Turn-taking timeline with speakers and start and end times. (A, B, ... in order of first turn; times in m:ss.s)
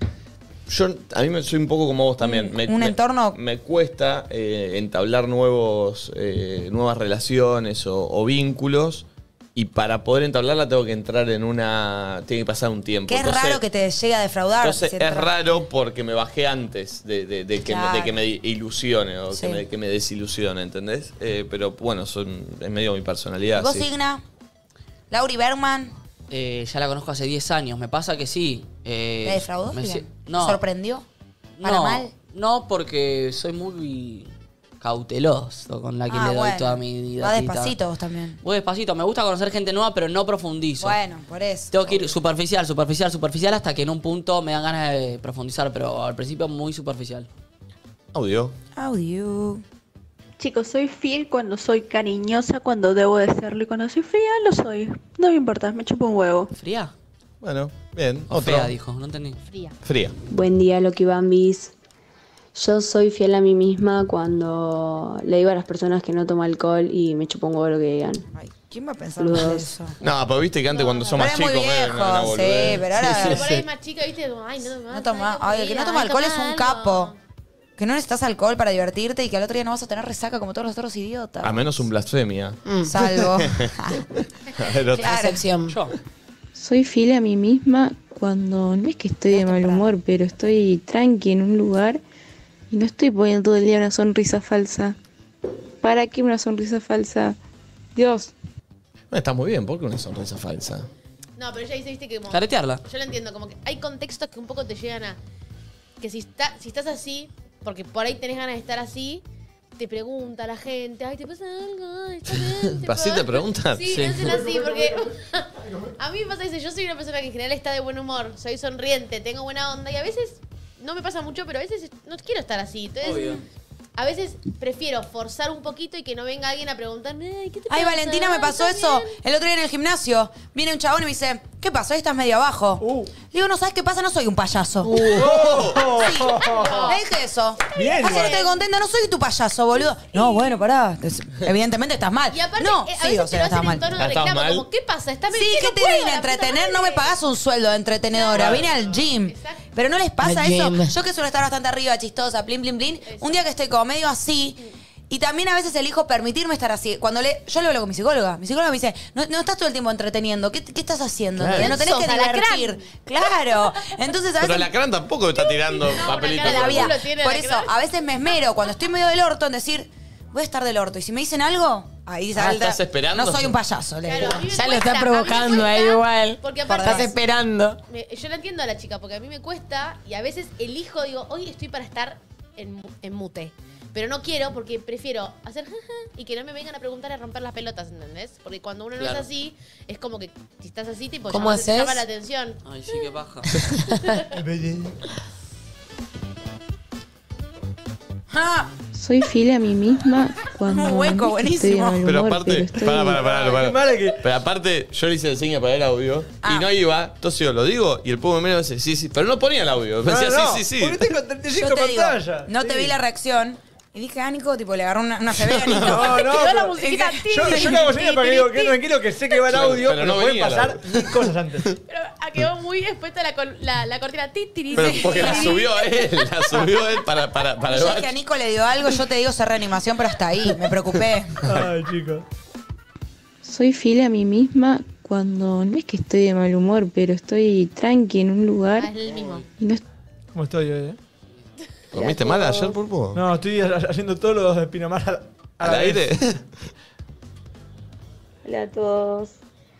0:00.7-0:13.6 A
0:02.2-0:03.4 B
0:13.1-0:15.3 B
0:14.6-0:23.9 A
0:17.6-0:18.2 B
0:19.3-0:19.6 B
0:23.6-0:24.2 B
0:25.1-0:25.9 B
0:26.3-0:30.6 C
0:29.2-0:31.0 B
0:31.6-0:37.7 C
0:31.6-0:32.1 B
0:36.1-0:38.4 B
0:38.4-0:41.0 C
0:40.8-0:42.0 B
0:41.7-0:47.3 C
0:48.1-0:48.5 A
0:48.7-0:49.6 B
0:50.4-0:56.5 D
0:56.5-0:56.9 C
0:57.4-0:58.7 A
0:58.3-0:59.4 C
0:59.4-0:59.8 E
0:59.8-1:00.1 A
1:08.3-1:10.0 B
1:10.0-1:13.6 A
1:10.7-1:11.3 E
1:11.2-1:13.4 B
1:13.2-1:17.1 E
1:14.9-1:17.1 B
1:17.8-1:21.7 B
1:21.4-1:23.7 A
1:22.7-1:23.1 F
1:22.8-1:24.0 B
1:24.4-1:25.2 A
1:25.0-1:25.4 B
1:25.0-1:25.8 F
1:25.7-1:25.9 C
1:26.5-1:32.0 G
1:29.3-1:29.9 B
1:32.7-1:35.0 G
1:35.8-1:37.4 G
1:37.9-1:38.3 G
1:39.1-1:40.9 A
1:41.4-1:45.2 E
1:42.3-1:42.8 C
1:46.0-1:49.2 E
1:49.8-2:03.4 E
1:52.3-1:54.1 A
1:53.9-1:54.2 C
1:54.3-1:55.1 H
1:55.6-1:55.9 H
2:03.0-2:03.4 C
2:04.0-2:09.2 E
2:07.7-2:23.8 B
2:12.8-2:13.1 H
2:14.9-2:16.9 H
2:14.9-2:15.8 A
2:16.2-2:17.0 E
2:17.7-2:18.5 E
2:17.7-2:18.4 H
2:20.1-2:20.4 E
2:22.3-2:27.2 E
2:23.9-2:24.6 A
2:25.3-2:44.7 B
2:28.1-2:29.6 E
2:28.3-2:28.7 A
2:30.2-2:30.9 F
2:33.0-2:33.4 E
2:41.4-2:41.8 A
2:41.5-2:43.6 E
2:44.4-2:46.9 A
2:45.4-2:47.7 E
2:45.9-2:54.4 B
2:52.3-2:53.6 A
2:54.0-2:57.2 E
2:54.4-2:57.8 F
2:56.6-2:57.1 B
2:57.9-3:12.6 E
3:09.0-3:09.3 C
3:11.3-3:12.0 F
3:12.6-3:13.5 C
3:13.7-3:14.2 F
3:14.3-3:14.9 H
3:18.3-3:18.7 B
3:18.9-3:23.2 G
3:20.7-3:22.0 B
3:22.0-3:31.1 A
3:23.0-3:24.2 H
3:26.4-3:26.7 B
3:30.0-3:33.0 H
3:31.5-3:36.3 B
3:35.4-3:36.0 A
3:35.8-3:41.7 H
3:35.9-3:39.3 E
3:39.5-3:41.7 A
3:41.9-3:46.7 E
3:44.7-3:48.1 A
3:44.8-3:45.5 B
3:47.7-3:51.4 B
3:51.4-3:52.2 H
3:53.4-3:58.9 G
3:58.8-3:59.5 E
3:59.1-3:59.4 C
3:59.6-3:59.8 G
4:00.3-4:01.0 H
4:01.9-4:03.2 A
4:03.1-4:06.1 H
4:05.6-4:06.4 A
4:08.4-4:09.4 G